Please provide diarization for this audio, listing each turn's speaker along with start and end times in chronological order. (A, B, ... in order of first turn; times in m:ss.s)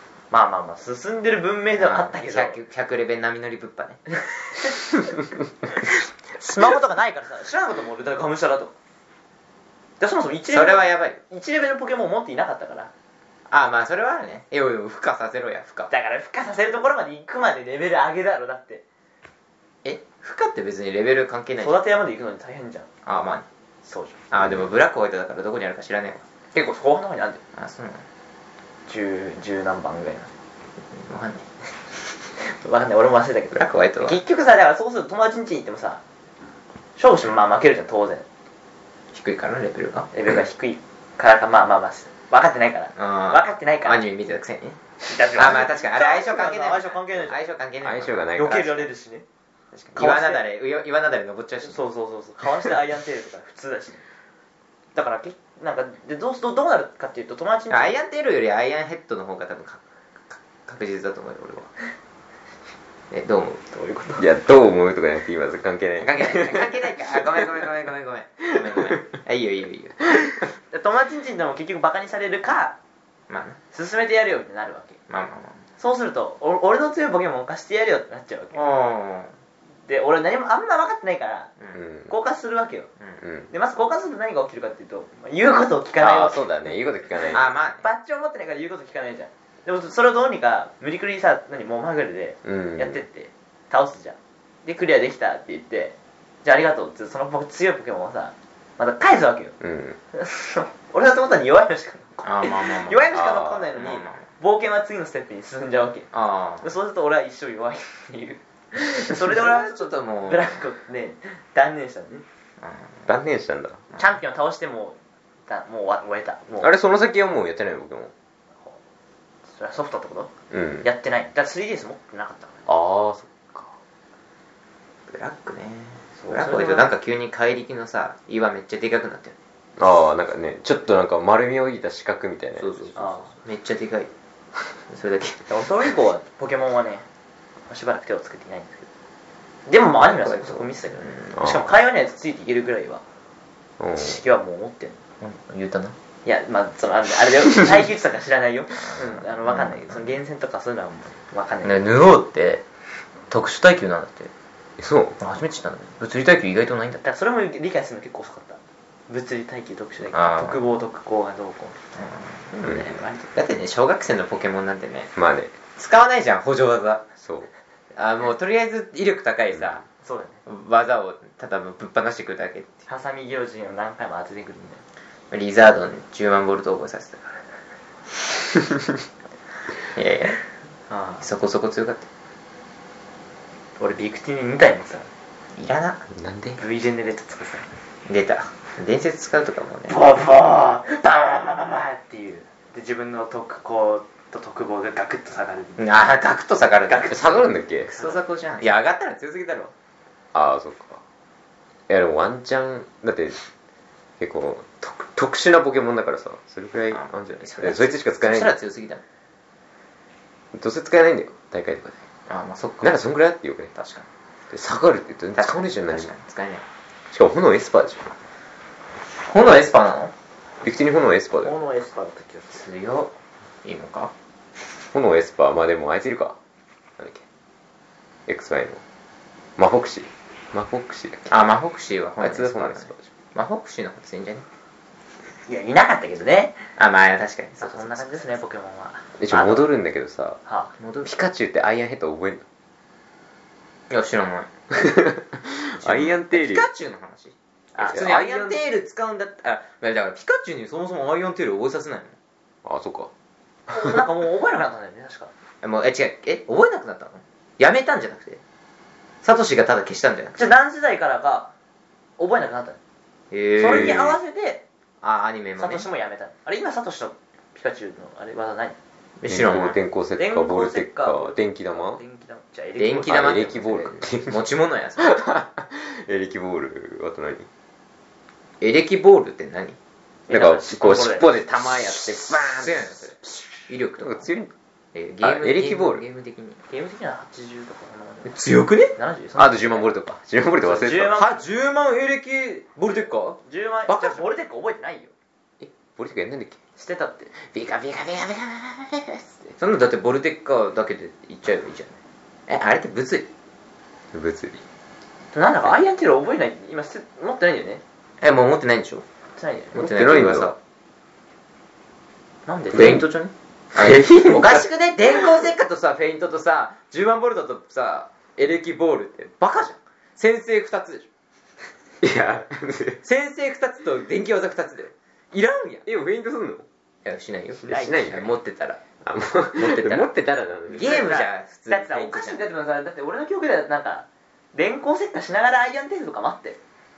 0:00.3-0:02.6 A
0:01.8-0:04.0 B
0:04.3-0:04.8 A
0:06.3-0:08.7 A
0:10.0-0:12.9 A
0:10.5-0:11.2 B
0:13.5-0:15.9 B
0:15.9-0:18.8 A
0:19.8-0:21.8 B
0:21.6-0:22.9 A
0:23.0-0:23.4 B
0:23.8-0:24.2 A
0:24.3-0:26.2 B
0:26.5-0:27.4 A
0:27.5-0:28.0 B
0:28.9-0:30.3 A
0:30.9-0:31.4 B
0:32.4-0:36.0 A
0:33.5-0:34.2 B
0:37.0-0:38.2 A
0:39.1-0:40.1 B
0:40.1-0:44.0 A
0:43.0-0:44.8 B
0:45.0-0:47.4 A
0:45.3-0:48.8 B
0:47.8-0:48.7 C
0:48.3-0:49.2 A
0:49.7-0:51.8 B
0:49.9-0:50.4 A
0:51.6-0:54.0 A
0:54.9-0:58.0 A
0:57.7-1:01.7 B
1:03.1-1:03.8 B
1:03.7-1:04.2 A
1:04.2-1:06.9 C
1:06.0-1:10.0 B
1:08.6-1:09.0 C
1:10.7-1:12.8 A
1:13.3-1:13.6 B
1:13.7-1:15.0 A
1:15.1-1:15.6 B
1:15.8-1:18.7 A
1:18.5-1:19.3 B
1:19.8-1:21.5 A
1:21.7-1:22.1 C
1:22.1-1:22.9 A
1:23.2-1:23.5 C
1:23.5-1:26.5 A
1:26.0-1:27.5 C
1:27.2-1:39.6 A
1:27.3-1:27.8 B
1:32.4-1:33.0 C
1:39.6-1:40.0 C
1:40.1-1:46.1 A
1:42.2-1:43.1 B
1:43.1-1:43.7 C
1:43.7-1:44.2 B
1:46.1-1:46.7 B
1:46.6-1:52.2 A
1:49.2-1:50.6 B
1:52.6-1:53.1 B
1:53.1-1:53.8 C
1:53.9-1:56.7 A
1:56.6-1:58.1 C
1:59.5-2:00.3 A
2:00.5-2:00.9 C
2:00.8-2:02.7 A
2:02.7-2:03.7 C
2:05.1-2:09.4 B
2:06.2-2:06.9 A
2:09.8-2:12.9 C
2:12.6-2:14.1 B
2:13.0-2:13.3 A
2:14.9-2:15.4 B
2:15.5-2:17.0 A
2:17.7-2:18.9 A
2:19.7-2:23.0 A
2:20.0-2:21.4 B
2:21.4-2:21.6 C
2:23.8-2:24.2 C
2:24.0-2:25.0 A
2:25.2-2:26.0 B
2:26.2-2:31.9 A
2:28.8-2:30.0 B
2:31.6-2:32.6 B
2:33.3-2:34.3 B
2:34.8-2:35.2 C
2:35.2-2:37.0 B
2:37.0-2:41.8 A
2:40.1-2:40.6 B
2:42.0-2:42.4 B
2:42.5-2:43.3 A
2:42.6-2:42.9 C
2:43.2-2:45.1 B
2:45.2-2:45.6 C
2:45.8-2:47.0 B
2:47.2-2:47.5 C
2:47.9-2:49.8 B
2:50.0-2:50.4 A
2:50.4-2:52.8 B
2:52.9-2:54.8 A
2:55.3-2:57.2 B
2:59.9-3:00.4 B
3:00.9-3:01.2 A
3:01.2-3:02.1 B
3:03.8-3:05.1 A
3:05.5-3:06.0 B
3:06.1-3:06.6 C
3:06.6-3:07.7 A
3:08.0-3:10.0 B
3:09.9-3:16.0 A
3:15.8-3:19.7 B
3:16.9-3:17.4 A
3:17.1-3:17.9 C
3:20.3-3:21.0 C
3:21.9-3:23.4 C
3:24.2-3:28.5 C
3:26.9-3:29.0 B
3:30.5-3:32.0 C
3:32.3-3:33.0 B
3:32.8-3:33.7 C
3:33.8-3:34.1 B
3:34.5-3:36.1 C
3:35.4-3:36.6 B
3:37.1-3:38.1 C
3:39.3-3:40.1 B
3:40.6-3:41.5 C
3:41.4-3:42.7 A
3:42.5-3:44.1 B
3:44.9-3:46.4 C
3:47.0-3:47.2 C
3:48.3-3:48.8 C
3:49.6-3:51.4 C
3:51.3-3:54.5 B
3:52.2-3:53.1 C
3:55.5-3:56.6 A
3:56.8-3:58.3 B
3:57.6-3:59.7 A
3:59.2-4:00.4 C
4:00.5-4:00.7 A
4:00.8-4:01.1 B
4:01.0-4:02.4 C
4:03.9-4:04.5 B
4:04.7-4:06.7 C
4:05.8-4:07.3 B
4:07.8-4:08.1 A
4:07.8-4:08.6 C
4:07.9-4:12.2 B
4:12.6-4:13.1 C
4:13.7-4:15.3 A
4:15.6-4:18.4 B
4:19.2-4:20.4 B
4:20.4-4:21.5 A
4:22.2-4:22.8 A
4:23.3-4:24.2 B
4:23.6-4:24.6 A
4:23.7-4:24.0 C
4:25.0-4:25.9 B
4:25.6-4:28.8 A
4:29.2-4:29.8 B
4:29.2-4:32.0 C
4:30.2-4:33.5 A
4:32.8-4:35.2 B
4:33.0-4:34.5 C
4:35.0-4:37.5 C
4:38.6-4:39.8 B
4:40.3-4:41.4 A
4:40.3-4:43.0 C
4:42.6-4:44.3 B
4:44.0-4:44.5 C
4:44.9-4:46.6 B
4:45.2-4:46.0 C
4:46.7-4:48.4 A
4:48.2-4:48.9 B
4:48.9-4:49.9 A
4:49.4-4:51.2 C
4:50.6-4:51.4 A
4:51.1-4:54.3 B
4:53.4-4:55.1 A
4:55.6-4:56.6 C
4:56.8-4:57.3 A
4:57.5-4:59.0 C
4:57.9-4:58.3 B
4:59.6-5:03.3 B
5:04.1-5:04.6 C
5:05.3-5:07.8 A
5:08.2-5:09.0 B
5:09.4-5:09.8 A
5:09.8-5:10.5 C
5:09.8-5:10.6 B
5:12.5-5:13.2 A
5:12.7-5:21.1 B
5:13.8-5:14.6 C
5:22.0-5:23.0 C
5:23.0-5:25.8 B
5:25.8-5:26.6 C
5:27.0-5:28.8 B
5:27.6-5:28.3 C
5:29.0-5:31.0 C
5:29.6-5:30.1 B
5:30.7-5:32.4 B
5:30.8-5:36.6 A